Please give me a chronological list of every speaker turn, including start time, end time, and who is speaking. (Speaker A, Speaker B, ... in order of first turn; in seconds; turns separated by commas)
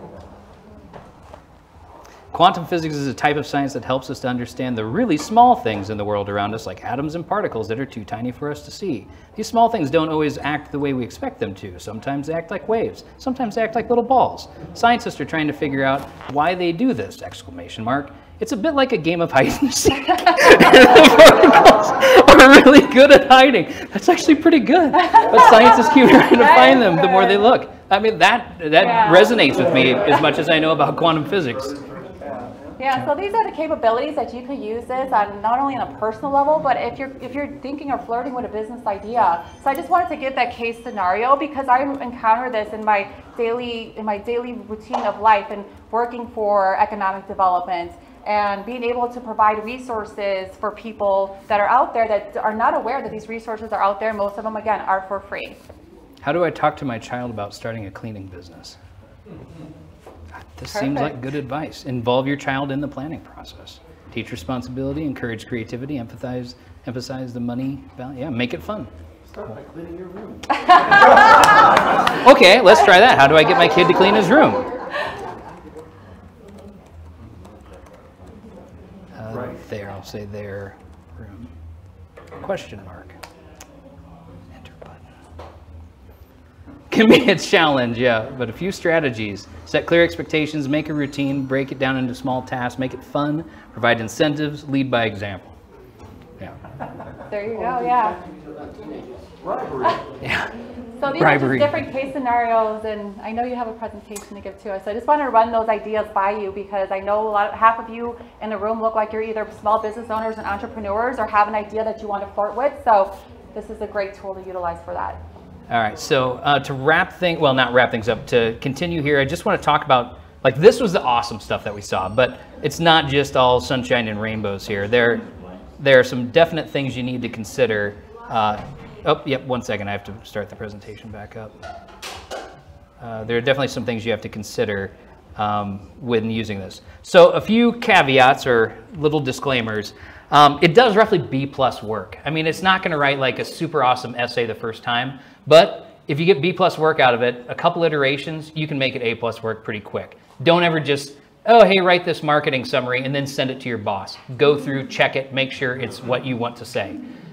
Speaker A: 2.3-31.8, Speaker B: 20.1-20.8, Speaker B: 24.9-27.4, Speaker B: 28.8-29.5, Speaker C: 29.4-32.6, Speaker B: 32.8-55.6, Speaker A: 56.2-58.8, Speaker A: 60.4-68.9, Speaker B: 60.7-61.2, Speaker D: 69.3-70.4, Speaker B: 70.5-71.5, Speaker A: 72.1-74.6, Speaker A: 79.1-81.5, Speaker C: 79.3-79.6, Speaker A: 82.4-83.2, Speaker A: 84.6-85.0, Speaker A: 86.9-95.5, Speaker B: 97.3-98.2, Speaker D: 98.0-99.2, Speaker C: 99.4-99.9, Speaker A: 100.2-100.5, Speaker B: 101.0-115.2, Speaker A: 101.1-101.8, Speaker A: 115.7-125.2, Speaker A: 125.8-131.5, Speaker A: 133.0-157.0